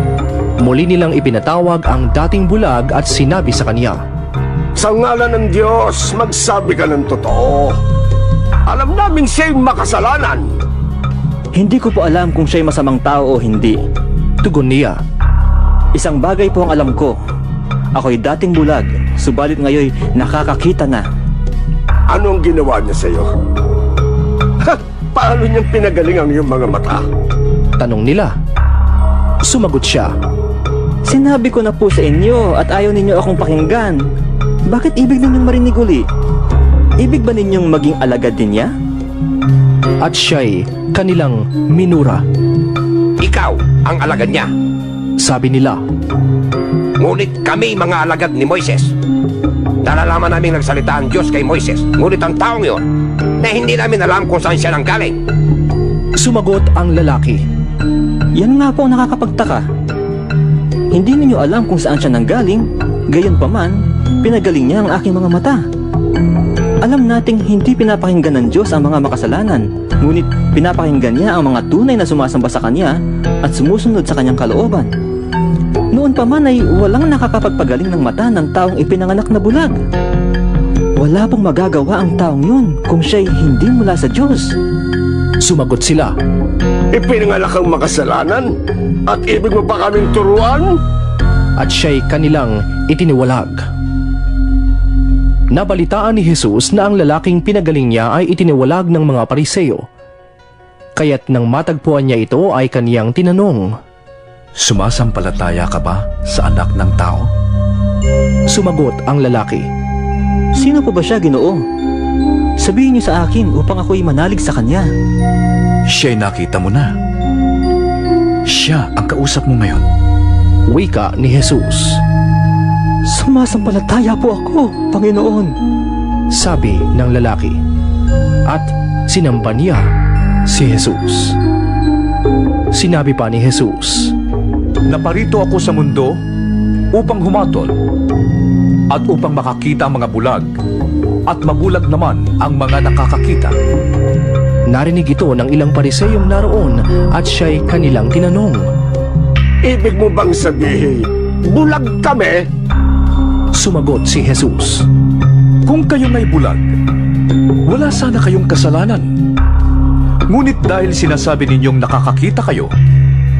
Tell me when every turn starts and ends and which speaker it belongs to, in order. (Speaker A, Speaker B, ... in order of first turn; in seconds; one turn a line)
Speaker A: 0.6-4.0
Speaker B: 4.8-7.7
Speaker B: 8.7-10.4
Speaker C: 11.5-13.8
Speaker A: 14.4-15.0
Speaker C: 15.9-17.1
Speaker C: 17.9-21.1
Speaker B: 22.1-23.3
Speaker B: 24.6-27.0
Speaker A: 27.8-28.3
Speaker A: 29.4-30.1
Speaker C: 31.1-34.0
Speaker C: 34.7-36.0
Speaker C: 37.0-38.7
Speaker A: 40.0-42.2
Speaker D: 43.2-44.5
Speaker A: 45.2-45.8
Speaker D: 47.0-48.9
Speaker D: 49.8-52.8
Speaker D: 53.4-55.2
Speaker A: 56.2-57.4
Speaker C: 58.4-59.6
Speaker C: 60.9-65.6
Speaker C: 66.8-74.9
Speaker C: 75.9-79.8
Speaker C: 81.0-84.5
Speaker A: 85.4-86.1
Speaker B: 86.9-88.5
Speaker B: 89.1-90.7
Speaker A: 91.6-93.6
Speaker A: 95.5-99.8
Speaker A: 101.0-103.7
Speaker E: 104.6-107.3
Speaker A: 108.5-109.7
Speaker C: 110.5-111.6
Speaker C: 112.6-114.9
Speaker E: 115.9-116.9
Speaker E: 118.5-119.8
Speaker A: 120.7-122.0
Speaker C: 123.1-125.5
Speaker A: 126.3-127.6
Speaker A: 128.5-129.8
Speaker A: 130.5-131.4
Speaker A: 132.7-134.1
Speaker E: 134.9-136.2
Speaker E: 136.9-137.7
Speaker E: 138.9-140.5
Speaker E: 141.3-143.5
Speaker A: 144.7-148.6
Speaker B: 149.6-152.4
Speaker A: 153.6-154.8
Speaker E: 155.7-156.6
Speaker E: 157.7-159.1
Speaker E: 160.3-162.7